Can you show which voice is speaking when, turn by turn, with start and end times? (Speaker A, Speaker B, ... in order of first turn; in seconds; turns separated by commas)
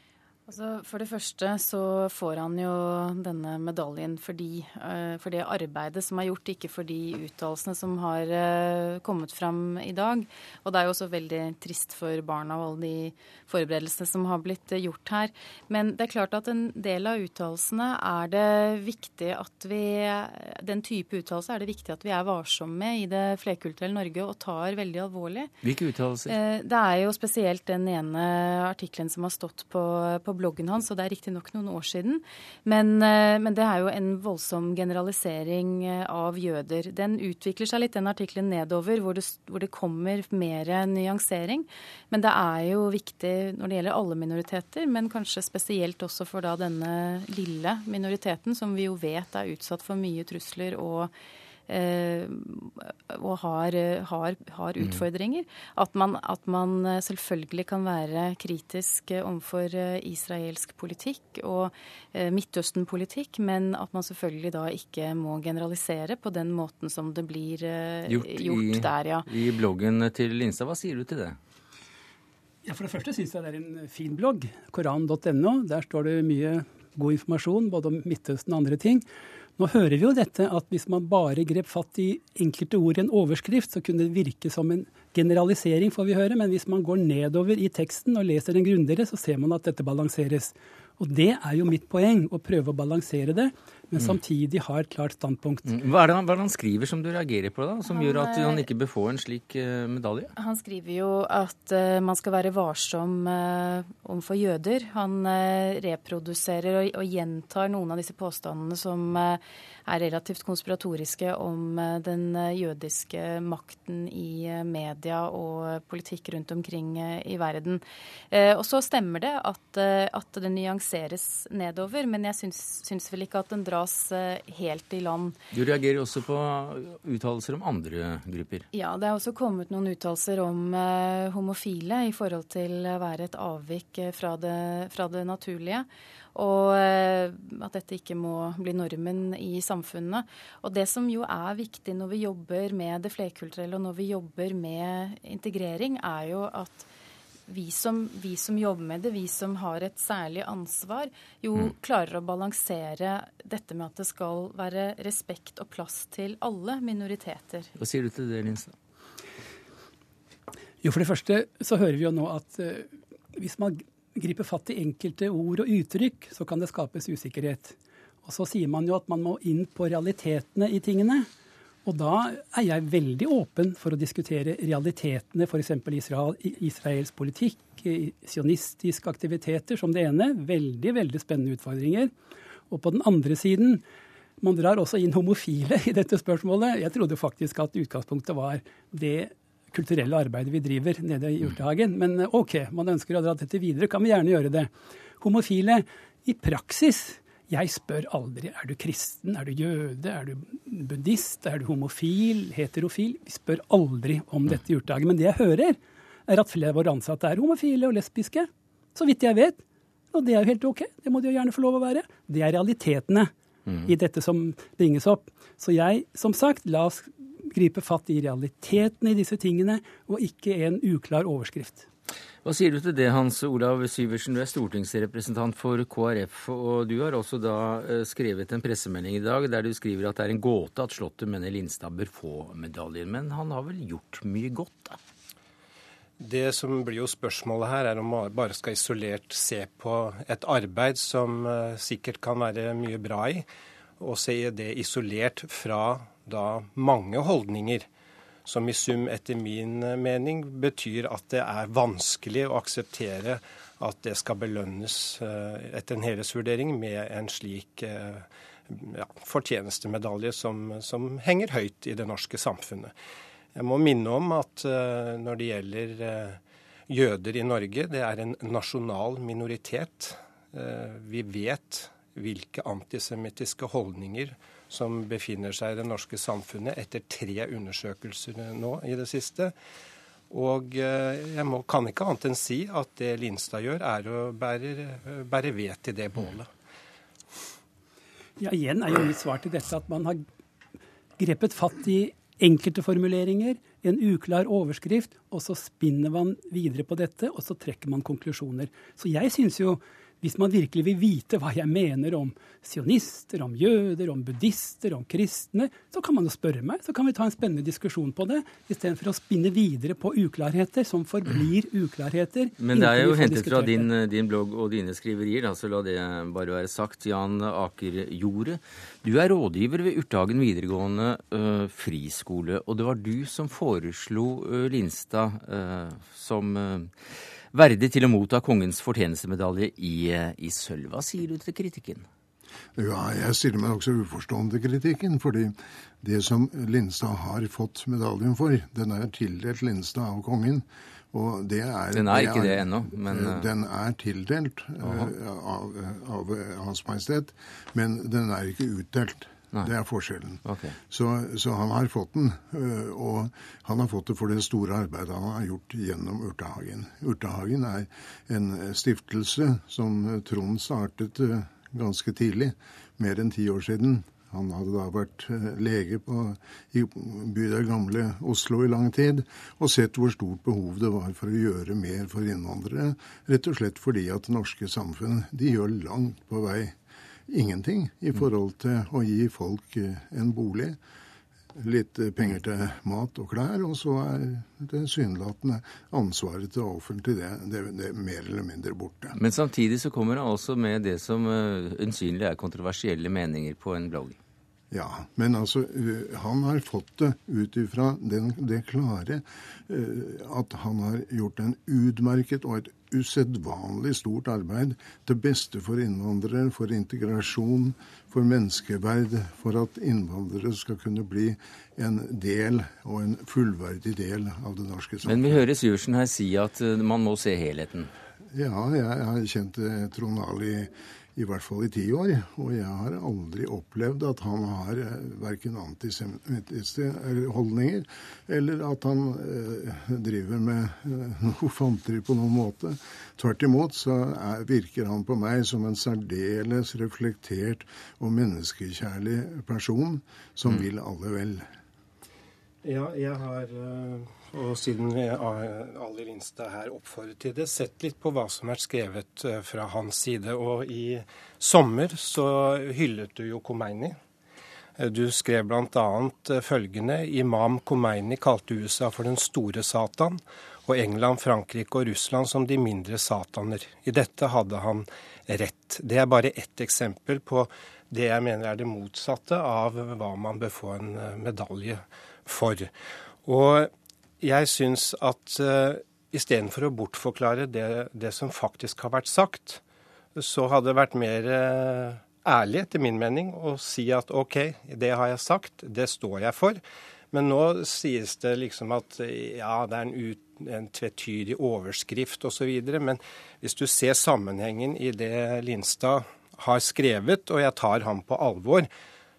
Speaker A: 0.5-25.5, Speaker B: 25.6-26.4, Speaker A: 26.3-51.1, Speaker A: 51.7-69.3, Speaker B: 68.1-71.4, Speaker C: 72.7-79.0, Speaker C: 79.6-95.7, Speaker B: 95.7-100.3, Speaker A: 97.9-98.7, Speaker A: 100.3-125.4, Speaker B: 125.5-128.7, Speaker A: 128.7-146.9, Speaker A: 147.5-157.7, Speaker B: 157.8-158.7, Speaker C: 160.8-171.3, Speaker C: 171.8-182.1, Speaker C: 182.7-183.8, Speaker C: 184.4-213.3, Speaker C: 213.8-221.9, Speaker B: 222.4-235.0, Speaker D: 236.2-243.5, Speaker D: 244.0-247.9, Speaker D: 248.4-262.9, Speaker D: 263.5-279.5, Speaker D: 280.3-286.5, Speaker C: 288.4-290.2, Speaker C: 291.2-313.9, Speaker B: 312.6-326.9, Speaker B: 327.5-332.1, Speaker E: 332.8-376.8, Speaker B: 341.9-343.5, Speaker B: 344.8-345.1, Speaker B: 350.4-350.8, Speaker E: 377.3-380.8, Speaker E: 381.6-389.1, Speaker B: 389.1-394.2, Speaker E: 394.7-415.4, Speaker B: 415.1-417.9, Speaker E: 418.3-441.5, Speaker D: 442.6-454.0, Speaker D: 454.8-472.7, Speaker D: 473.2-479.6, Speaker D: 480.2-486.6, Speaker D: 487.1-498.7